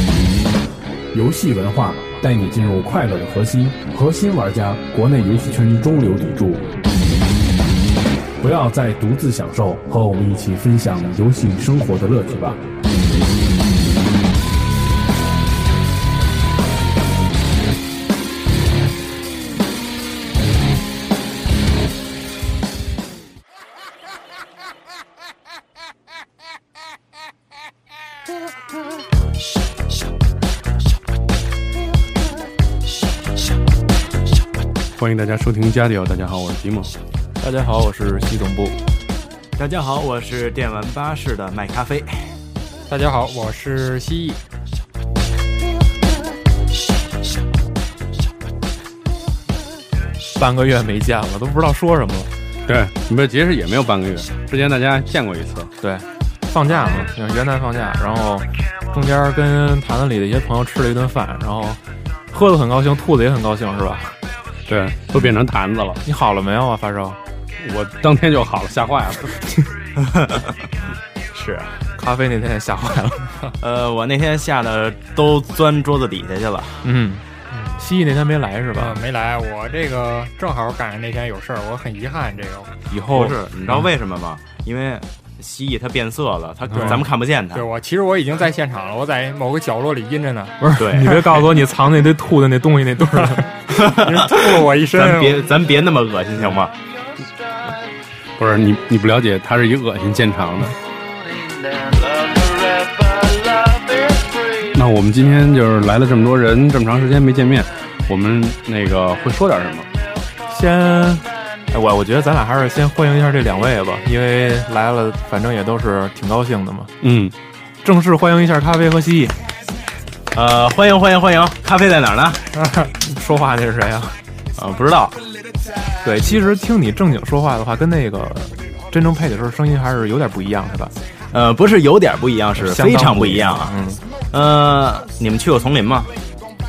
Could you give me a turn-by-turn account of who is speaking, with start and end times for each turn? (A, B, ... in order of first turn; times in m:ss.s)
0:01.1-0:06.7 A
0:08.4-0:12.8 A
0:35.0-0:36.9 B
0:37.4-0:38.7 C
0:39.6-0:42.4 D
0:42.9-0:44.4 E
0:50.4-0:52.3 C
0:52.6-0:55.7 B
0:55.8-1:01.8 C
1:02.3-1:04.1 C
1:04.7-1:06.0 B
1:06.0-1:07.2 C
1:07.6-1:09.4 B
1:10.0-1:10.6 D
1:11.3-1:11.8 D
1:12.0-1:13.3 C
1:13.6-1:16.8 D
1:16.8-1:17.2 C
1:17.5-1:17.8 E
1:17.8-1:19.0 C
1:18.7-1:22.7 E
1:22.9-1:23.8 C
1:23.1-1:27.7 D
1:26.7-1:27.0 C
1:26.7-1:30.7 E
1:30.6-1:33.5 C
1:30.8-1:31.4 D
1:33.1-1:35.5 E
1:33.7-1:36.7 D
1:38.4-1:40.8 B
1:44.6-1:49.9 B
1:50.5-1:56.9 C
1:57.0-1:57.3 B
1:57.8-1:59.4 C
2:00.3-2:02.4 D
2:02.6-2:02.9 E
2:02.9-2:04.2 C
2:04.6-2:05.2 D
2:06.0-2:10.9 C
2:11.3-2:13.7 D
2:12.6-2:14.0 C
2:14.3-2:16.1 D